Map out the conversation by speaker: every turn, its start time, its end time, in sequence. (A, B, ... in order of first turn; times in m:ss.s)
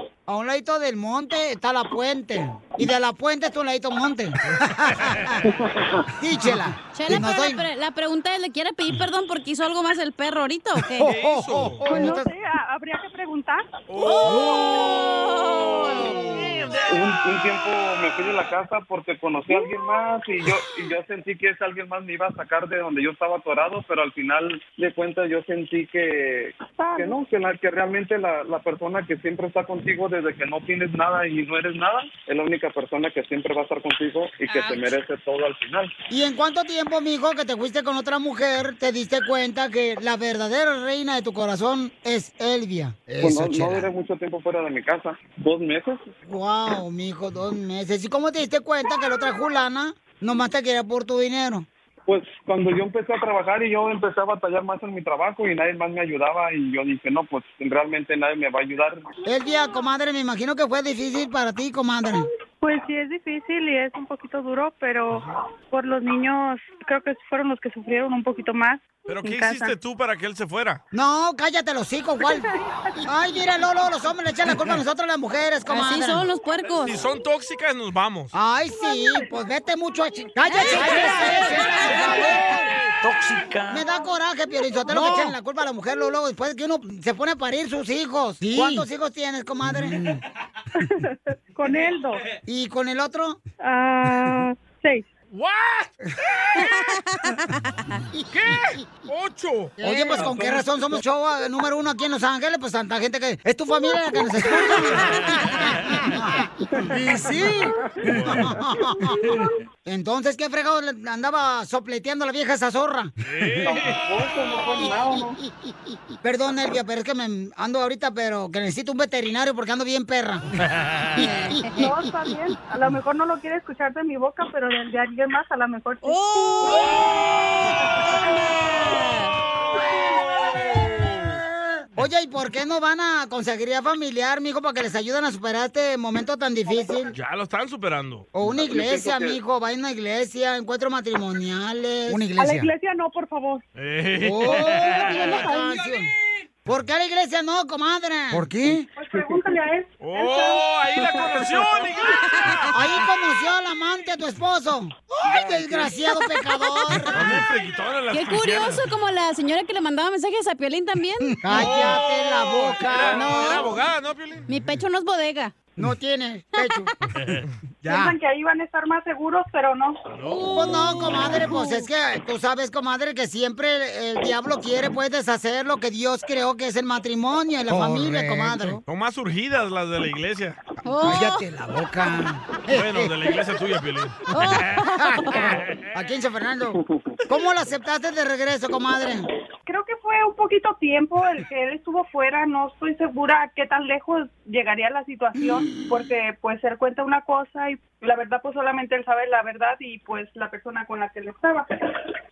0:00.3-0:05.4 A
0:05.5-0:06.0 B
0:06.2-0:07.6 A
0:06.9-0:11.1 C
0:10.9-0:12.3 A
0:11.0-0:12.0 D
0:11.8-0:13.7 E
0:13.9-0:17.3 D
0:14.0-0:16.2 C
0:14.2-0:15.0 A
0:16.9-0:35.9 B
0:19.5-0:19.8 E
0:26.8-0:27.1 E
0:36.1-0:43.9 A
0:43.2-0:46.0 B
0:46.2-0:51.7 A
0:52.1-0:59.0 B
0:59.2-1:02.2 A
1:02.6-1:09.7 E
1:09.1-1:10.8 D
1:10.9-1:12.5 A
1:13.0-1:16.2 A
1:15.7-1:16.9 C
1:16.8-1:18.3 D
1:18.3-1:22.7 A
1:20.5-1:22.3 C
1:23.7-1:30.2 A
1:24.9-1:25.3 D
1:30.8-1:32.2 E
1:32.4-1:33.4 A
1:33.6-1:35.1 E
1:35.3-1:35.9 D
1:36.4-1:36.9 D
1:36.6-1:37.5 C
1:38.3-1:39.8 D
1:39.8-1:53.1 A
1:39.8-1:40.7 B
1:45.0-1:45.9 D
1:48.0-1:48.5 D
1:53.2-1:54.0 D
1:53.6-1:55.4 B
1:54.8-1:55.1 A
1:56.2-2:00.5 A
2:00.8-2:01.2 D
2:01.2-2:01.9 A
2:01.2-2:01.7 C
2:01.7-2:07.1 E
2:06.0-2:09.3 C
2:12.0-2:17.1 A
2:17.1-2:18.3 D
2:18.3-2:22.7 A
2:18.4-2:19.4 B
2:22.1-2:23.6 E
2:23.8-2:25.5 D
2:24.2-2:26.1 A
2:24.9-2:25.8 E
2:26.6-2:28.9 A
2:29.0-2:31.9 E
2:29.1-2:29.4 B
2:30.0-2:32.9 D
2:32.7-2:37.4 A
2:36.1-2:37.0 C
2:37.1-2:38.8 D
2:38.1-2:41.9 C
2:41.4-2:43.6 A
2:41.5-2:44.5 D
2:43.1-2:43.7 C
2:44.5-2:45.5 C
2:45.8-2:48.1 A
2:47.2-2:47.4 D
2:47.8-2:50.0 E
2:50.1-2:51.0 D
2:50.3-2:58.8 A
2:58.8-3:00.6 D
3:00.8-3:01.4 C
3:01.0-3:03.1 A
3:02.7-3:04.2 D
3:04.3-3:05.5 C
3:04.4-3:09.2 A
3:06.7-3:07.2 B
3:09.6-3:21.8 E